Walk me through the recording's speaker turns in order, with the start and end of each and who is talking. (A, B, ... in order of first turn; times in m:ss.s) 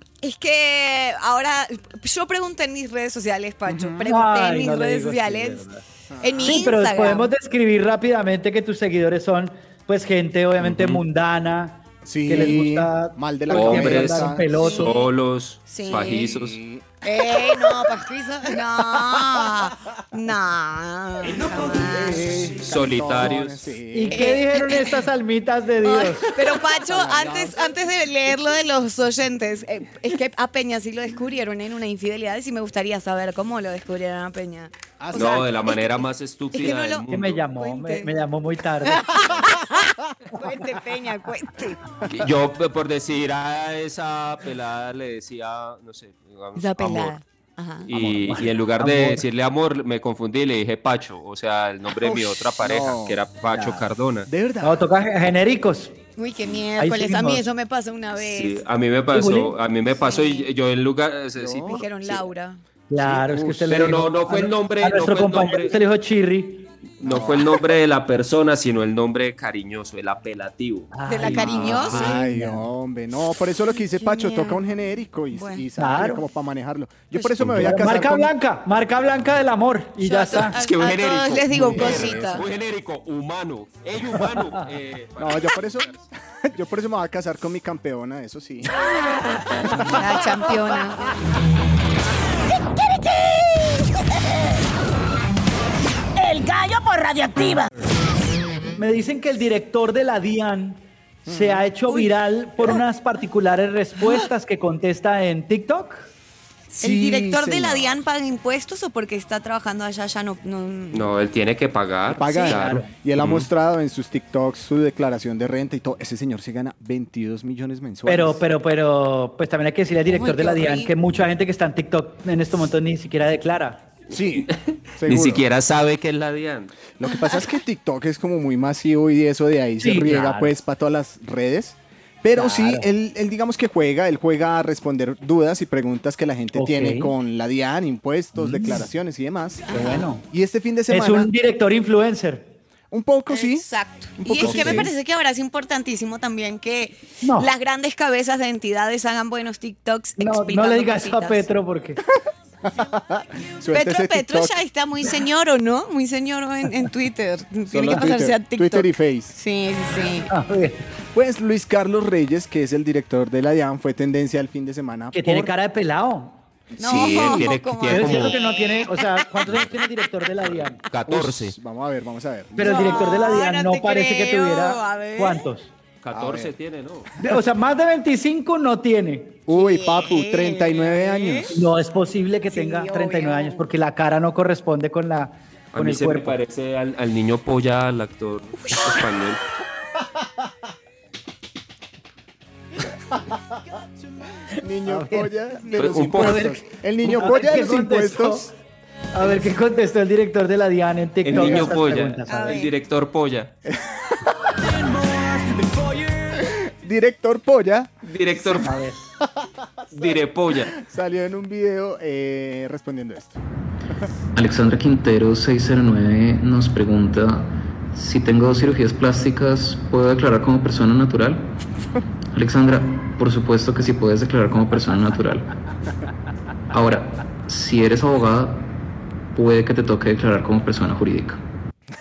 0:00.2-0:05.6 A
0:03.7-0:04.0 B
0:04.0-0:05.8 C
0:06.1-0:06.7 B
0:06.2-0:07.3 A
0:06.4-0:14.9 C
0:10.6-0:11.0 D
0:12.0-0:14.8 B
0:13.5-0:16.6 D
0:15.7-0:16.3 A
0:15.9-0:16.9 B
0:17.0-0:22.4 A
0:21.3-0:24.3 B
0:22.6-0:23.6 D
0:23.9-0:26.3 C
0:24.1-0:25.0 A
0:25.8-0:38.1 A
0:26.6-0:27.8 B
0:35.0-0:35.5 B
0:35.1-0:37.4 D
0:37.1-0:39.0 C
0:38.8-0:41.8 A
0:42.1-0:47.2 D
0:46.5-0:47.9 A
0:47.8-0:54.3 D
0:47.9-0:48.4 B
0:48.3-0:49.2 C
0:52.1-0:53.2 B
0:54.3-0:54.8 B
0:54.6-0:55.9 C
0:56.2-0:58.6 A
0:56.8-0:57.4 C
0:58.2-1:02.2 D
0:59.1-0:59.5 C
1:00.0-1:00.5 A
1:01.4-1:01.8 B
1:01.7-1:02.6 A
1:02.9-1:06.7 C
1:03.0-1:03.9 B
1:03.7-1:05.7 D
1:07.0-1:10.9 D
1:07.0-1:07.5 B
1:10.9-1:12.6 C
1:11.1-1:12.1 A
1:11.3-1:18.3 B
1:13.8-1:14.6 A
1:15.3-1:15.6 A
1:15.8-1:16.2 C
1:17.1-1:17.5 A
1:17.6-1:20.6 C
1:20.0-1:22.4 A
1:20.5-1:25.9 D
1:21.5-1:22.4 B
1:25.2-1:28.7 B
1:29.8-1:31.1 A
1:32.6-1:34.6 E
1:36.2-1:37.7 E
1:38.8-1:46.1 C
1:41.2-1:41.7 B
1:46.7-1:51.1 A
1:46.8-1:48.0 B
1:50.9-1:53.5 D
1:52.1-1:58.4 B
1:52.3-1:52.9 C
1:58.0-2:03.8 C
2:00.1-2:00.9 A
2:04.1-2:05.4 B
2:04.4-2:06.7 D
2:07.0-2:21.3 B
2:09.8-2:10.5 C
2:12.3-2:12.9 C
2:16.5-2:17.1 C
2:18.4-2:18.8 C
2:19.7-2:20.0 A
2:19.7-2:20.2 C
2:20.9-2:22.5 C
2:22.9-2:23.6 B
2:23.3-2:31.4 A
2:24.2-2:24.9 B
2:24.4-2:24.9 C
2:27.2-2:27.5 C
2:30.2-2:32.0 C
2:32.6-2:34.5 B
2:33.7-2:40.3 A
2:37.7-2:39.3 B
2:40.3-2:40.8 C
2:41.1-2:45.5 B
2:45.1-2:46.4 C
2:46.7-2:47.5 B
2:46.8-2:49.6 A
2:46.8-2:48.4 D
2:47.9-2:50.8 C
2:50.8-2:51.5 D
2:51.1-2:53.1 B
2:52.6-2:55.7 C
2:52.6-2:55.4 A
2:56.0-2:57.1 D
2:56.1-2:56.5 B
2:57.2-2:59.4 C
2:59.5-3:01.5 B
2:59.5-3:01.6 A
3:01.5-3:06.4 C
3:02.5-3:03.6 A
3:05.7-3:09.4 D
3:08.7-3:08.9 A
3:14.6-3:18.5 B
3:14.9-3:15.3 C
3:15.7-3:16.5 D
3:16.1-3:18.5 C
3:19.1-3:22.6 C
3:21.2-3:23.5 D
3:21.3-3:21.6 B
3:22.3-3:22.7 A
3:23.6-3:23.9 B
3:26.4-3:27.9 B
3:28.0-3:28.7 D
3:28.6-3:29.1 C
3:29.9-3:30.7 D
3:30.7-3:33.4 B
3:34.4-3:41.5 F
3:42.3-3:45.4 F
3:46.7-3:48.6 F
3:49.3-3:51.4 F